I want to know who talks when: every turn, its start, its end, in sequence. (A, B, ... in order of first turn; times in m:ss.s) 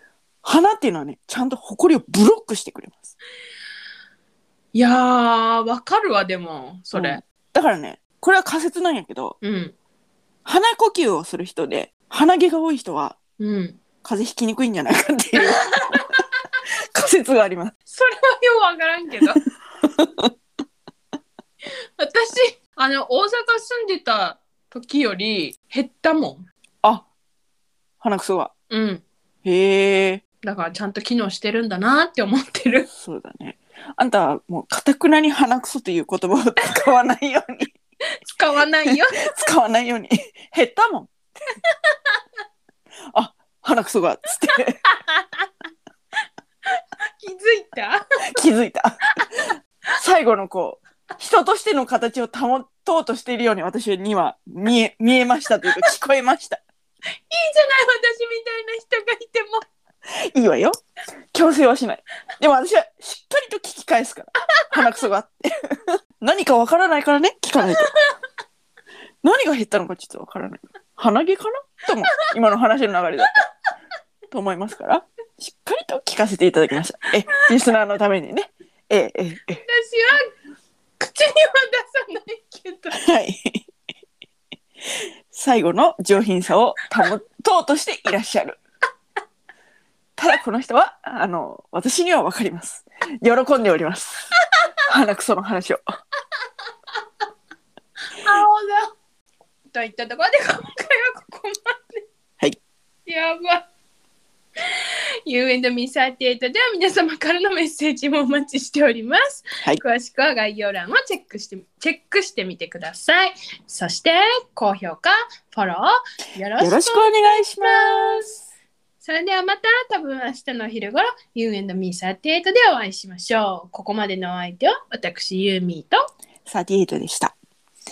0:00.4-0:03.1 A
0:04.7-0:07.2 B
0:06.9-0:09.4 A
0:09.4-0:09.7 B
0:10.4-0:13.2 A
0:13.4-0:13.8 B
0:14.0-0:15.6 A
0:15.4-0:16.2 B
0:16.9-0:17.7 A
0:17.9-0:19.4 B
0:19.8-0:20.3 A
0:22.0-0:26.4 B
0:28.0-0:28.5 A
0:28.7-0:29.0 B
0:29.4-0:30.2 A
0:30.4-0:32.9 B
0:33.0-0:37.7 A
0:38.2-0:39.4 B
0:38.8-0:41.1 A
0:41.8-0:42.1 B
0:43.1-0:44.8 A
0:44.8-0:45.4 B
0:46.8-0:48.4 B
0:48.4-0:56.6 A
0:57.3-0:59.6 B
1:00.3-1:00.7 A
1:01.3-1:07.9 A
1:04.7-1:05.0 B
1:07.7-1:08.1 B
1:09.2-1:13.3 A
1:14.3-1:19.6 A
1:19.6-1:20.2 B
1:21.0-1:23.0 B
1:22.9-1:23.6 A
1:25.3-1:28.6 A
1:30.2-1:34.3 A
1:34.9-1:35.8 A
1:38.1-1:38.9 B
1:39.7-1:42.0 B
1:43.0-1:43.7 B
1:44.7-1:58.4 B
1:56.6-1:58.3 A
1:59.0-2:06.0 B
2:06.4-2:07.3 A